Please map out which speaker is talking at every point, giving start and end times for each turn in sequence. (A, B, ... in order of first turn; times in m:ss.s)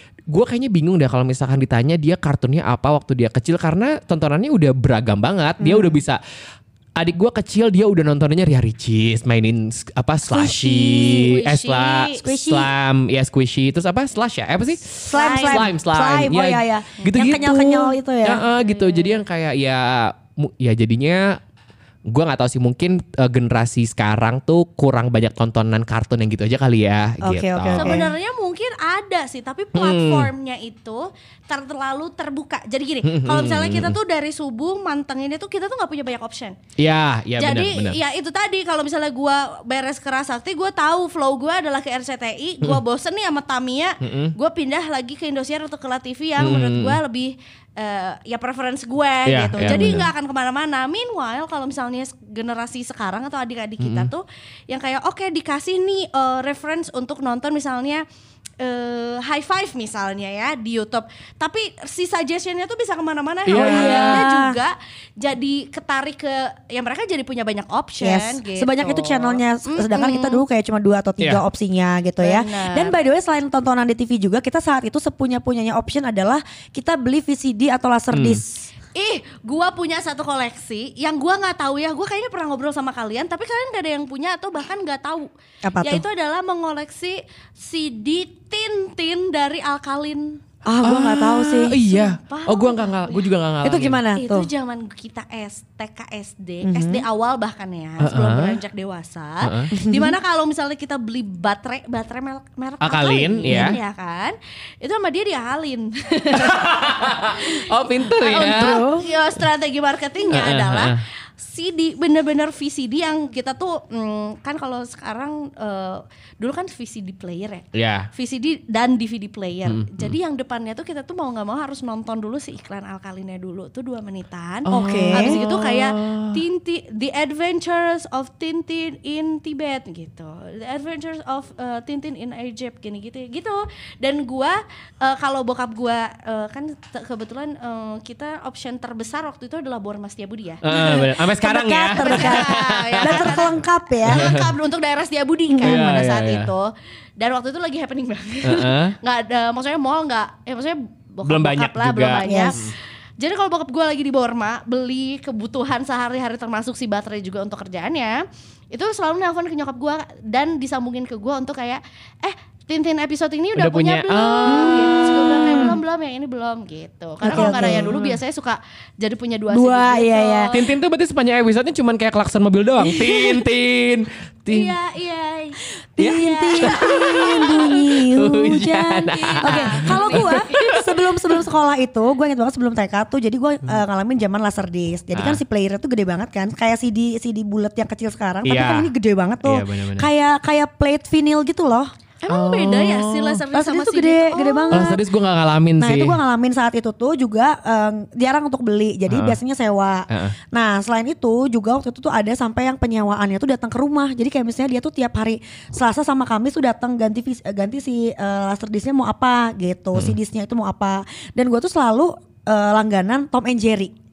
0:00.3-0:06.2 A
0:05.6-0:06.0 B
0:07.0-0:21.4 A
0:10.3-0:11.1 B
0:10.6-0:12.2 C
0:12.2-0:12.7 B
0:15.1-0:18.4 B
0:15.1-0:15.7 C
0:17.0-0:17.3 C
0:18.5-0:19.2 C
0:22.1-0:28.0 A
0:27.2-0:28.1 B
0:27.8-0:36.6 C
0:29.7-0:30.3 A
0:33.0-0:34.0 A
0:36.8-0:38.0 A
0:37.4-0:58.0 C
0:44.0-0:44.3 A
0:46.4-0:47.0 A
0:49.2-0:50.1 A
0:53.8-0:54.1 A
0:58.6-1:10.4 C
1:03.5-1:04.2 A
1:03.5-1:04.6 B
1:08.0-1:18.7 B
1:12.2-1:12.9 C
1:18.1-1:18.4 A
1:18.9-1:25.3 C
1:25.6-1:26.0 B
1:25.8-1:30.4 C
1:30.6-1:31.8 B
1:30.8-1:34.0 A
1:31.8-1:33.2 C
1:33.6-1:34.5 B
1:34.1-2:20.6 C
1:36.6-1:37.0 B
1:38.0-1:38.6 A
1:39.4-1:39.7 A
1:39.7-1:40.2 B
1:42.8-1:43.8 A
1:46.3-1:48.9 A
1:48.4-1:49.0 B
1:50.3-1:51.0 A
1:57.7-1:58.1 A
1:59.6-2:00.2 A
2:04.6-2:06.4 A
2:04.7-2:05.4 B
2:20.6-2:23.5 A
2:20.7-2:24.3 B
2:21.9-2:50.6 C
2:24.0-2:24.5 A
2:25.5-2:26.0 B
2:25.6-2:26.5 A
2:28.4-2:28.9 A
2:31.2-2:32.7 A
2:32.2-2:32.6 B
2:43.6-2:45.7 A
2:44.4-2:45.7 B
2:47.2-2:48.0 B
2:47.2-2:48.2 A
2:49.5-2:50.5 B
2:50.5-2:54.7 A
2:54.5-2:57.8 C
2:56.0-3:11.9 B
2:56.0-3:00.8 A
2:59.1-3:00.8 C
3:05.1-3:05.4 A
3:08.4-3:08.9 A
3:09.4-3:10.1 A
3:12.2-3:14.9 C
3:12.3-3:13.4 A
3:13.5-3:15.0 B
3:14.7-3:16.2 A
3:15.8-3:33.9 B
3:19.1-3:19.4 A
3:20.1-3:20.4 A